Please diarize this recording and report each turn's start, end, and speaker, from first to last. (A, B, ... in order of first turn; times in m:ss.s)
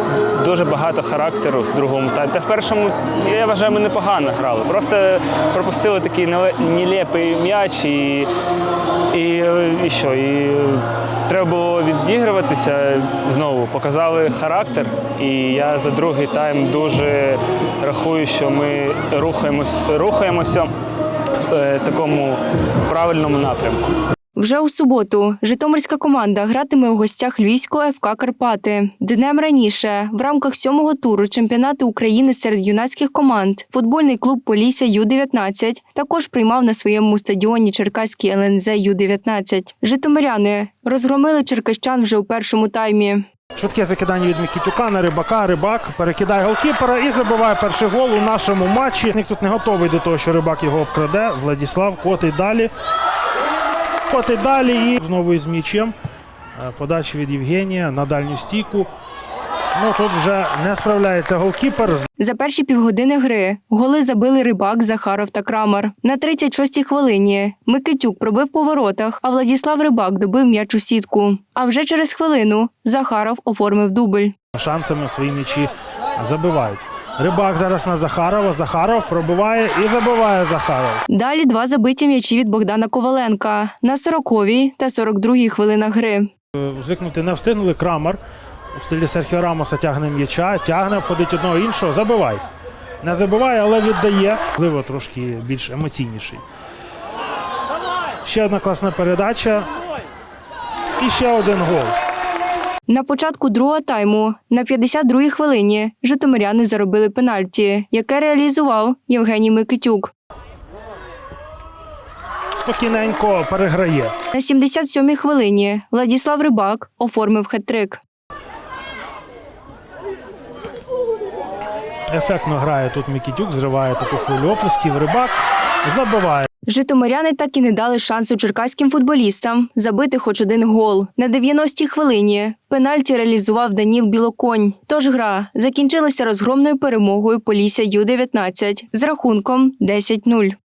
0:00.4-0:08.3 A
0:09.1-0:20.7 A
0:21.5-0:23.9 A
0:24.4-0:43.2 B
0:43.6-0:52.7 C
0:54.1-0:55.9 C
0:56.6-0:58.9 C
0:59.8-1:02.1 C
1:02.2-1:14.3 B
1:14.6-1:21.0 C
1:21.1-1:26.3 B
1:26.6-1:28.2 C
1:28.7-1:32.4 C
1:33.0-1:36.4 C
1:38.2-1:39.7 C
1:41.0-1:42.0 C
1:42.9-1:50.1 B
1:52.6-1:54.1 C
1:54.3-1:58.0 B
2:02.1-2:06.5 C
2:06.7-2:20.6 B